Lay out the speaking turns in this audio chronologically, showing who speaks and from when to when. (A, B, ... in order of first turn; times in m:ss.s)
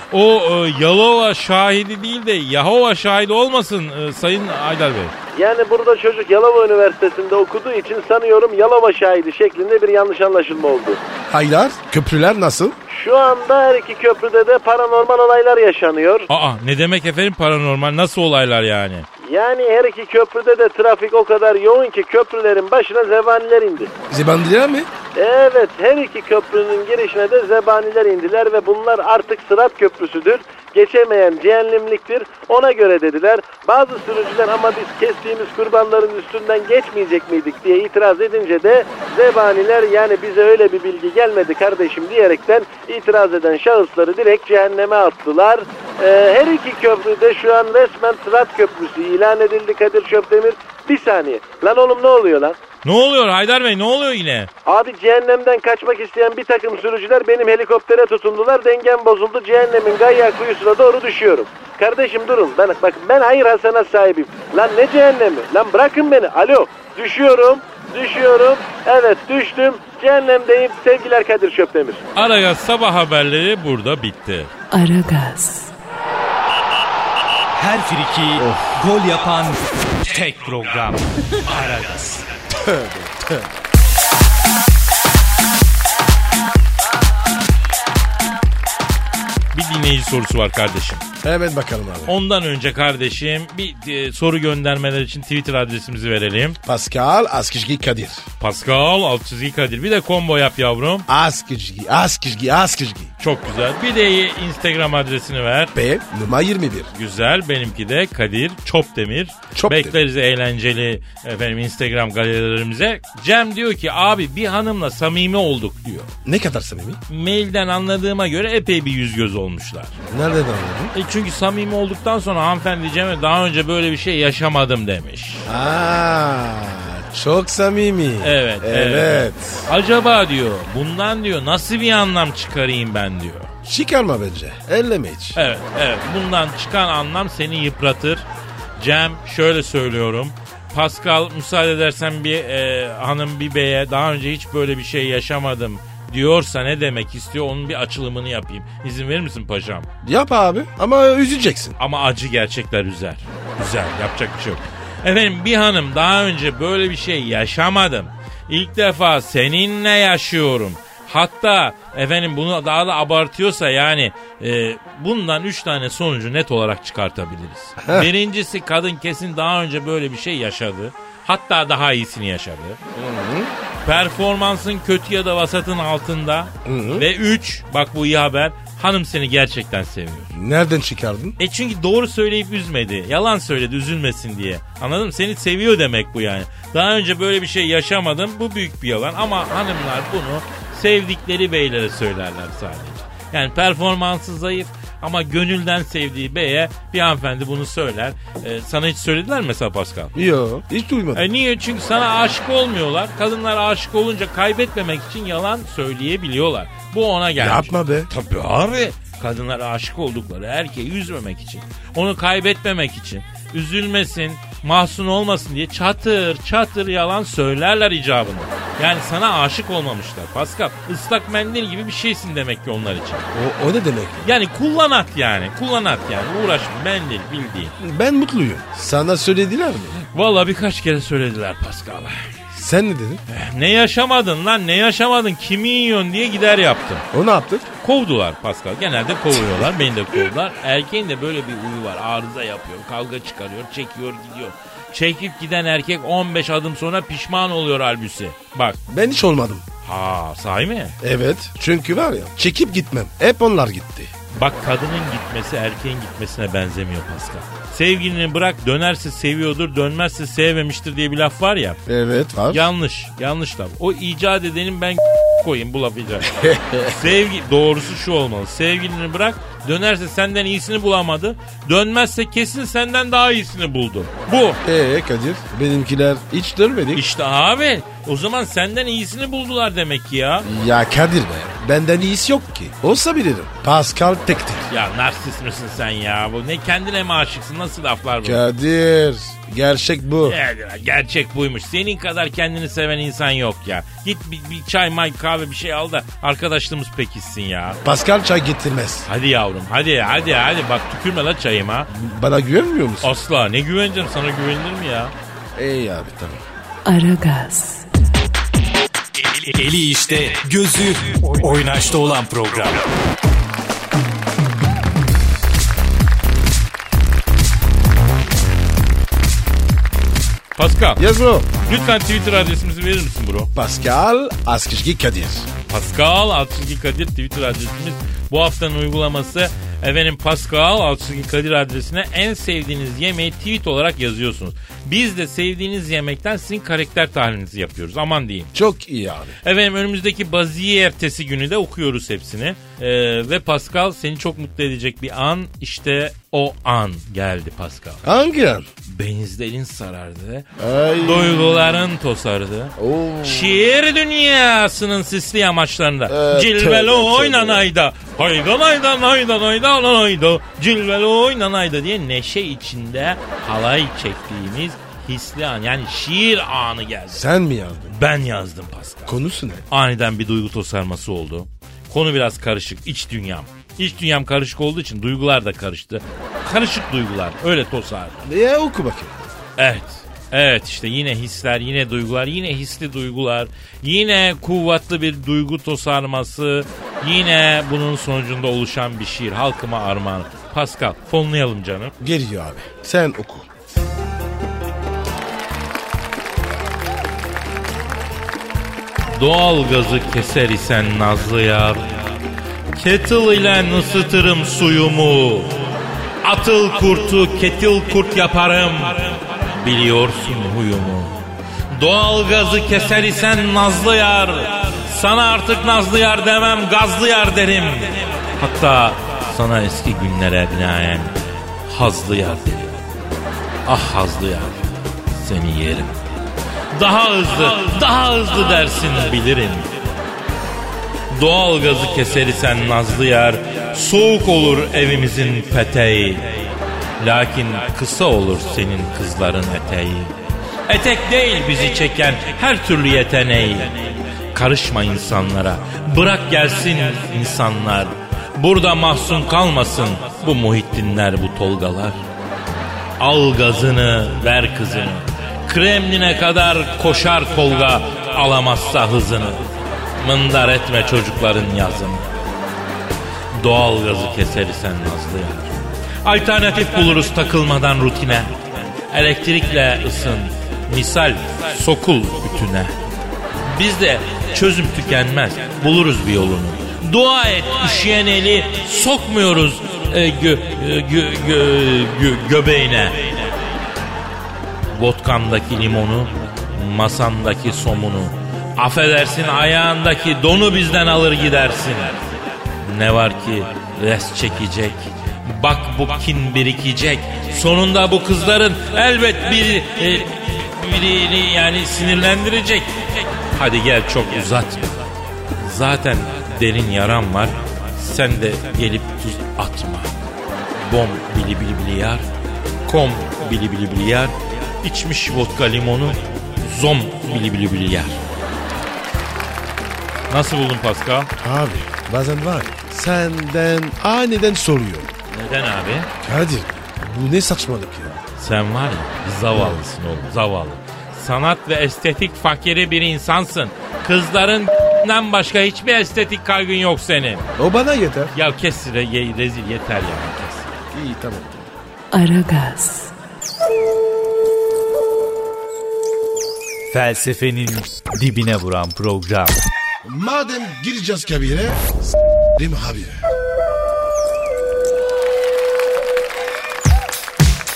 0:00.1-0:05.1 A
0:05.4-0:11.0 B
0:11.3-0:12.8 C
0:12.9-0:16.3 B
0:16.3-0:19.1 A
0:19.2-0:23.9 B
0:24.1-0:24.9 C
0:25.2-0:52.6 B
0:52.8-0:54.5 A
0:54.7-1:12.0 B
1:12.2-1:14.5 A
1:14.7-1:15.7 D
1:17.5-1:22.3 E
1:18.4-1:18.7 C
1:22.5-1:23.5 C
1:29.5-1:31.0 A
1:31.2-1:32.2 C
1:32.1-1:36.6 A
1:36.6-1:38.2 C
1:38.4-1:41.1 A
1:41.1-1:43.1 C
1:43.2-1:45.7 A
1:45.8-1:46.9 C
1:46.9-1:56.1 A
1:49.5-1:50.0 C
1:56.2-1:57.0 C
1:57.1-2:00.0 A
2:00.1-2:00.9 C
2:00.9-2:05.5 A
2:05.5-2:09.7 C
2:08.2-2:13.5 A
2:13.6-2:15.4 C
2:15.4-2:18.2 A
2:18.8-2:29.9 A
2:30.0-2:31.8 C
2:31.8-2:52.8 A
2:47.8-2:48.1 C
2:52.9-2:53.5 C
2:53.8-3:00.3 A
2:56.7-2:57.1 C
3:00.3-3:01.4 C
3:01.4-3:20.2 A
3:20.2-3:21.3 C
3:21.2-3:43.2 A
3:27.4-3:28.1 C
3:43.3-3:44.3 C
3:44.2-3:47.7 A
3:47.8-3:50.0 C
3:50.1-3:52.3 A
3:52.5-3:53.2 C
3:53.3-3:57.0 A
3:57.1-3:57.7 C
3:57.8-4:08.8 A
4:08.9-4:09.6 C
4:09.8-4:11.0 A
4:11.0-4:14.1 C
4:14.4-4:21.8 A
4:21.9-4:22.7 C
4:22.5-4:34.6 A
4:26.4-4:27.0 C
4:34.6-4:37.0 C
4:37.0-4:40.5 A
4:40.4-4:44.7 C
4:44.7-4:48.4 A
4:48.2-4:50.4 C
4:50.3-4:57.8 A
4:57.8-4:59.1 C
4:59.1-5:01.9 A
5:01.9-5:03.1 C
5:03.0-5:05.1 A
5:05.6-5:06.4 C
5:06.9-5:07.9 D
5:09.2-5:12.9 E
5:20.6-5:21.0 A
5:21.0-5:21.5 C
5:21.7-5:23.5 A
5:23.6-5:25.5 C
5:25.7-5:38.5 A
5:38.5-5:39.4 C
5:39.4-5:48.0 A
5:48.0-5:48.7 C
5:48.9-5:50.5 A
5:50.6-5:51.9 C
5:51.0-6:07.2 A
5:52.8-5:53.6 C
5:56.1-5:57.7 C
6:07.1-6:08.0 C
6:07.9-6:09.1 A
6:09.1-6:09.6 C
6:09.7-6:18.3 A
6:18.2-6:19.2 C
6:19.6-6:31.9 A
6:32.0-6:33.5 C
6:39.1-6:42.1 A
6:42.8-6:45.7 A
6:46.2-6:51.1 A
6:51.7-7:02.8 A
7:03.7-7:05.9 A
7:06.7-7:09.7 A
7:11.1-7:20.1 A
7:20.7-7:32.0 A
7:33.0-7:39.4 A
7:40.0-7:42.0 A
7:43.3-7:52.8 A
7:53.5-8:03.3 A
8:04.8-8:12.0 A
8:12.6-8:24.8 A
8:25.4-8:32.0 A
8:32.7-8:38.0 A
8:40.1-8:41.1 A
8:41.2-8:44.9 C
8:45.1-8:45.9 A
8:46.0-8:48.0 C
8:48.2-8:57.3 A
8:49.3-8:49.6 C
8:57.4-8:58.1 C
8:58.1-9:00.6 A
9:00.7-9:01.5 C
9:01.9-9:03.0 D
9:06.7-9:09.4 E
9:09.8-9:13.0 C